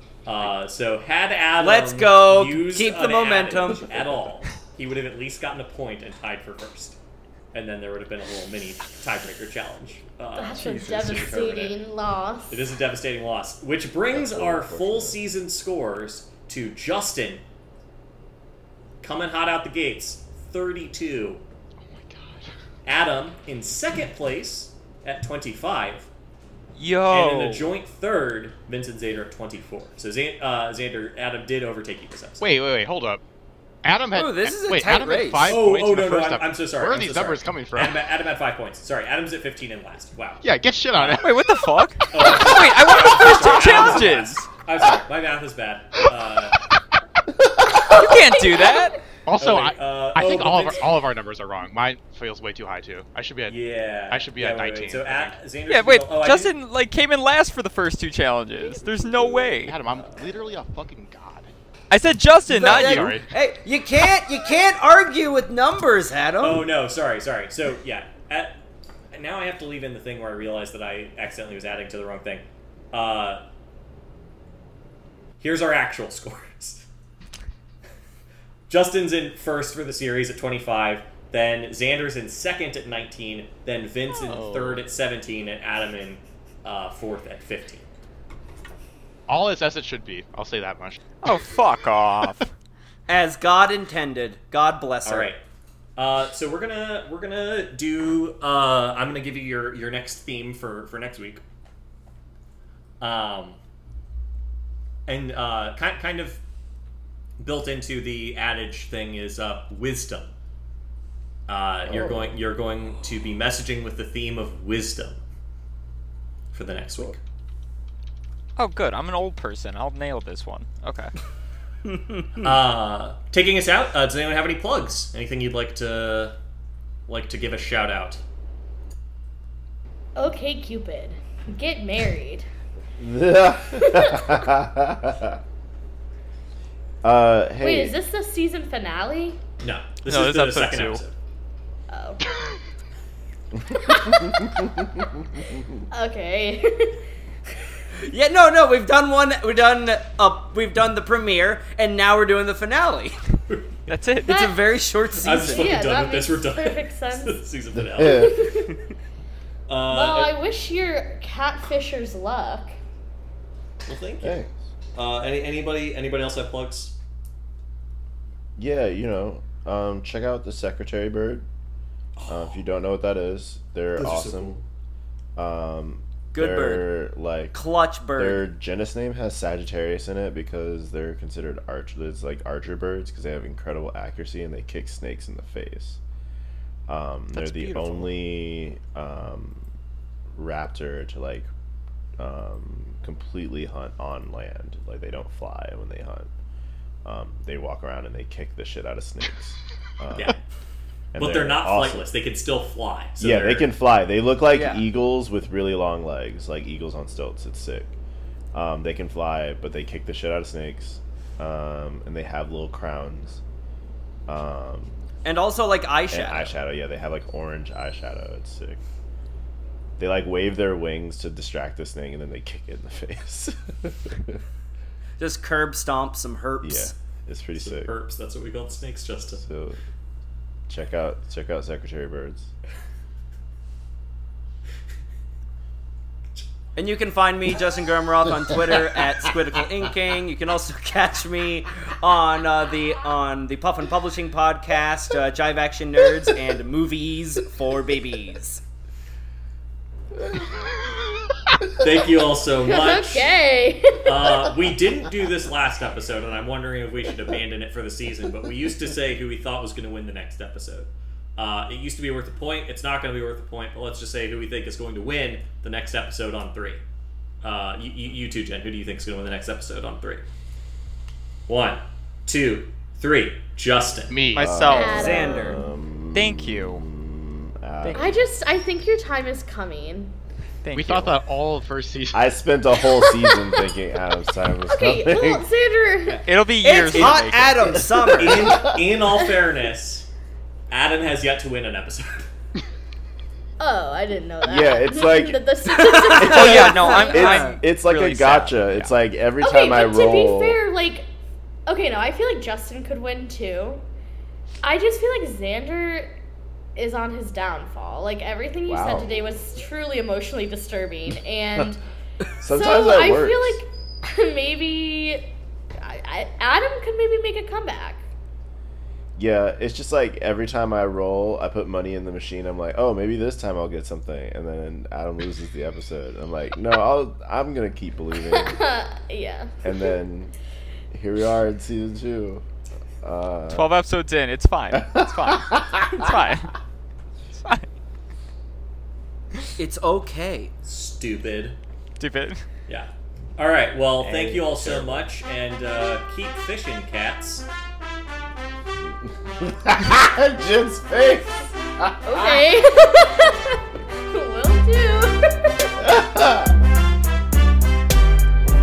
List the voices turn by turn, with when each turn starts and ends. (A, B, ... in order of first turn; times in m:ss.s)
0:00.2-0:07.0 A
0:01.6-0:04.1 B
0:07.5-0:11.8 A
0:10.4-0:12.6 C
0:12.5-0:17.4 A
0:14.1-0:15.2 D
0:19.0-0:21.4 A
0:21.8-0:22.5 E
0:22.8-0:26.1 A
0:26.8-0:27.7 F
0:27.1-0:32.4 A
0:32.4-0:33.2 E
0:33.8-0:38.0 E
0:34.1-0:35.6 B
0:35.4-0:41.2 A
0:40.4-0:41.3 E
0:41.0-0:44.5 F
0:42.1-0:46.6 A
0:47.8-0:49.0 F
0:47.9-0:49.0 C
0:49.3-0:53.6 E
0:49.4-0:51.0 A
0:53.5-0:56.5 A
0:54.1-0:55.4 E
0:55.7-0:59.8 F
0:59.6-1:01.5 E
1:01.9-1:03.2 F
1:02.5-1:06.7 B
1:02.6-1:03.3 E
1:06.4-1:08.6 A
1:09.1-1:13.4 A
1:15.4-1:16.9 A
1:18.7-1:27.9 A
1:24.3-1:24.8 E
1:29.3-1:31.0 E
1:31.2-1:32.5 F
1:33.1-1:35.3 B
1:35.0-1:35.4 A
1:36.0-1:41.4 A
1:43.0-1:43.6 A
1:45.1-1:46.4 A
1:47.4-1:50.3 A
1:51.5-1:55.2 A
1:51.9-1:52.4 D
1:56.5-1:57.2 A
1:58.6-2:01.1 F
2:01.9-2:02.4 B
2:02.4-2:06.4 A
2:07.1-2:08.2 A
2:10.2-2:12.5 C
2:13.0-2:15.4 D
2:13.8-2:14.4 C
2:17.0-2:18.0 D
2:17.6-2:19.4 C
2:19.6-2:21.2 A
2:20.0-2:21.0 F
2:21.9-2:22.2 C
2:23.7-2:24.5 C
2:25.9-2:27.1 C
2:28.0-2:33.2 B
2:33.9-2:34.5 F
2:34.2-2:35.8 B
2:34.3-2:34.6 C
2:35.1-2:38.4 A
2:35.5-2:37.4 C
2:37.7-2:38.5 D
2:38.0-2:38.8 C
2:39.7-2:40.4 A
2:39.9-2:42.7 C
2:43.9-2:44.4 A
2:44.2-2:44.6 D
2:44.9-2:47.0 A
2:48.6-2:51.5 D
2:52.2-2:52.6 A
2:52.3-2:54.6 D
2:54.0-2:54.6 A
2:55.4-2:57.6 D
2:56.3-2:56.9 B
2:57.5-2:58.5 B
2:58.2-3:06.0 D
3:06.9-3:09.7 D
3:07.3-3:08.2 F
3:10.3-3:11.5 D
3:12.2-3:16.3 D
3:17.0-3:20.4 D
3:21.1-3:22.1 D
3:21.2-3:23.7 A
3:23.2-3:27.9 D
3:24.5-3:24.8 B
3:28.5-3:33.4 D
3:34.3-3:35.0 D
3:35.2-3:36.6 B
3:36.1-3:38.8 D
3:40.0-3:44.4 D
3:45.2-3:46.9 B
3:46.6-3:48.0 D
3:47.6-3:49.4 A
3:49.4-3:49.8 D
3:50.7-3:52.5 D
3:56.8-4:08.6 B
4:11.8-4:13.3 A
4:12.7-4:14.4 C
4:14.0-4:26.8 A
4:27.4-4:30.2 A
4:31.5-4:34.2 A
4:34.1-4:34.7 E
4:34.3-4:35.2 F
4:34.4-4:38.3 D
4:34.7-4:35.6 C
4:34.8-4:35.6 B
4:36.1-4:36.8 F
4:37.8-4:38.2 F
4:38.0-4:40.2 C
4:40.6-4:41.2 F
4:40.7-4:42.3 E
4:42.1-4:45.4 D
4:42.9-4:43.6 C
4:44.7-4:46.2 C
4:46.1-4:48.6 B
4:46.3-4:48.0 F
4:46.9-4:50.1 A
4:50.7-4:52.3 A
4:53.6-4:57.2 C
4:54.4-4:55.4 D
4:56.0-4:57.6 B
4:56.1-5:00.6 D
4:56.2-4:59.0 F
4:59.4-5:01.1 C
5:01.7-5:03.8 C
5:04.6-5:06.1 C
5:06.8-5:11.8 C
5:08.7-5:09.2 D
5:12.4-5:13.6 D
5:12.4-5:18.1 C
5:19.2-5:28.6 D
5:28.2-5:29.6 C
5:29.6-5:30.3 D
5:30.9-5:32.4 D
5:33.0-5:33.8 D
5:33.5-5:36.6 F
5:34.7-5:36.2 D
5:37.4-5:37.7 F
5:39.6-5:40.5 B
5:40.6-5:41.6 A
5:42.0-5:42.4 F
5:42.7-5:47.5 A
5:44.0-5:44.4 F
5:44.1-5:45.1 D
5:48.8-5:52.5 D
5:52.0-5:55.7 C
5:55.8-5:56.5 D